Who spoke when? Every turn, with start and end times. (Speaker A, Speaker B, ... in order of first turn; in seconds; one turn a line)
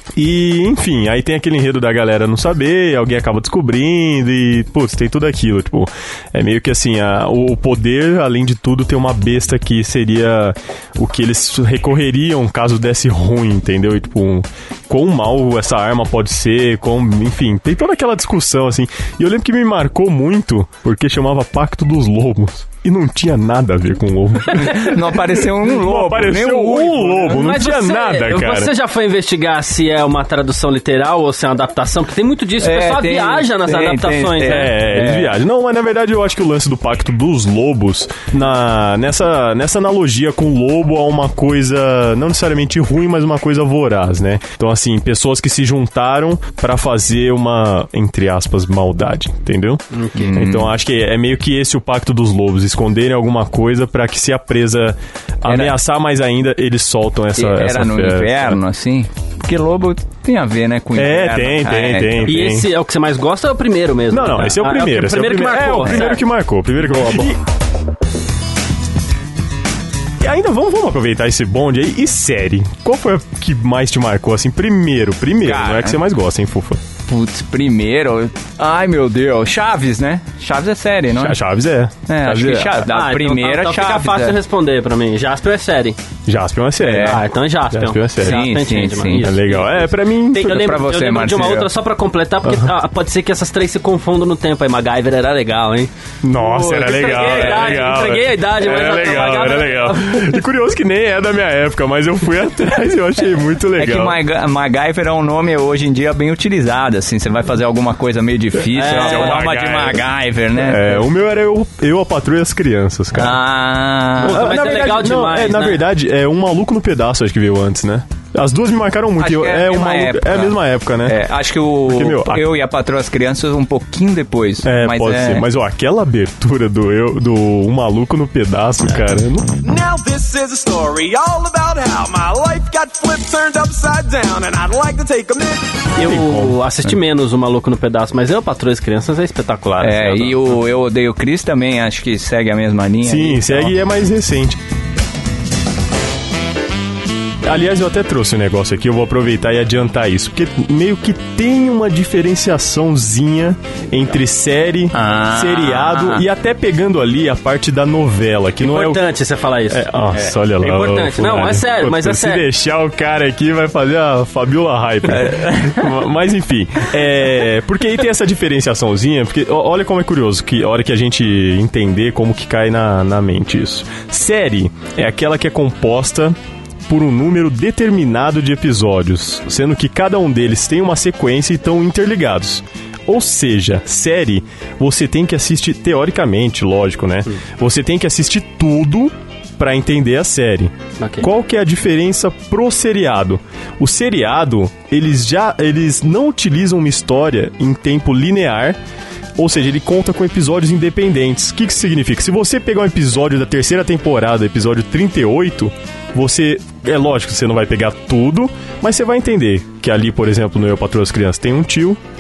Speaker A: 0.2-25.0
Speaker B: 24.6-27.4
Speaker A: 25.6-28.7
Speaker C: 27.3-34.8
Speaker B: 32.6-35.4
Speaker A: 34.4-58.6
Speaker C: 49.9-50.3
Speaker B: 50.1-50.7
Speaker B: 55.5-55.8
Speaker B: 57.4-62.4
Speaker A: 61.0-62.7
Speaker C: 62.3-66.2
Speaker A: 64.1-67.4
Speaker A: 70.2-76.8
Speaker B: 75.4-76.0
Speaker B: 77.1-81.4
Speaker A: 81.1-82.9
Speaker B: 82.1-84.4
Speaker C: 82.9-86.0
Speaker A: 86.3-88.4
Speaker B: 86.8-87.2
Speaker C: 86.9-100.4
Speaker B: 88.2-89.3
Speaker A: 89.1-90.6
Speaker B: 90.4-91.7
Speaker A: 96.2-104.2
Speaker B: 103.8-111.0
Speaker C: 108.7-109.4
Speaker A: 108.9-110.0
Speaker A: 110.6-113.4
Speaker B: 113.2-114.4
Speaker C: 114.2-115.8
Speaker A: 114.2-121.2
Speaker B: 119.2-125.5
Speaker A: 121.8-122.5
Speaker A: 124.6-129.6
Speaker D: 129.6-135.9
Speaker C: 136.0-140.4
Speaker A: 136.0-136.6
Speaker B: 139.8-143.8
Speaker A: 143.0-144.6
Speaker A: 147.4-159.0
Speaker B: 154.9-156.2
Speaker C: 158.6-159.9
Speaker A: 159.7-176.4
Speaker C: 160.6-162.4
Speaker B: 165.1-165.9
Speaker A: 176.9-198.8
Speaker C: 191.0-191.3
Speaker A: 199.4-212.0